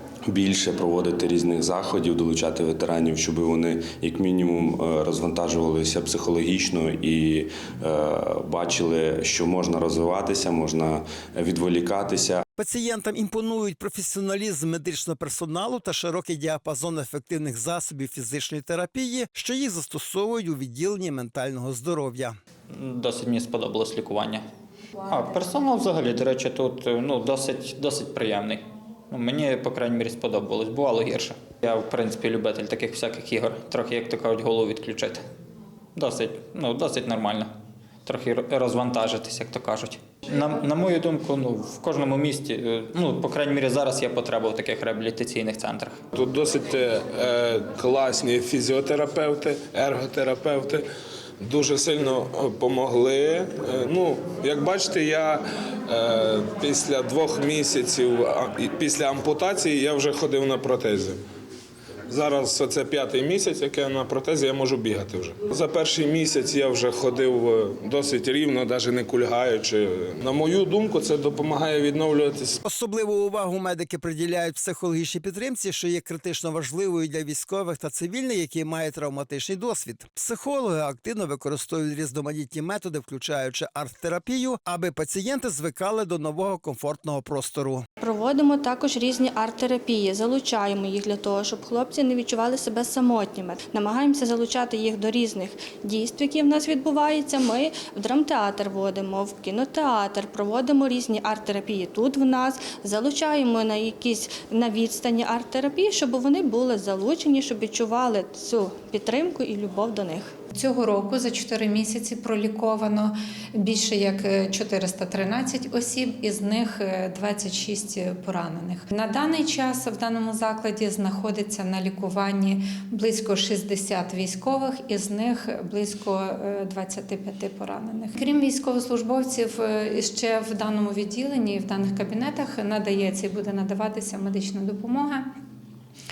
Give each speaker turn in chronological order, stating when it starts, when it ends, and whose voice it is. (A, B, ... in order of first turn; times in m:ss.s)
0:00.3-0:12.4 A
0:12.6-0:22.4 B
0:22.7-0:24.4 C
0:25.1-0:35.2 C
0:35.9-0:37.5 C
0:38.0-0:46.0 C
0:46.1-0:50.8 D
0:51.4-1:01.2 D
1:02.1-1:12.6 D
1:12.6-1:27.8 B
1:28.0-1:50.3 E
1:50.5-2:15.3 F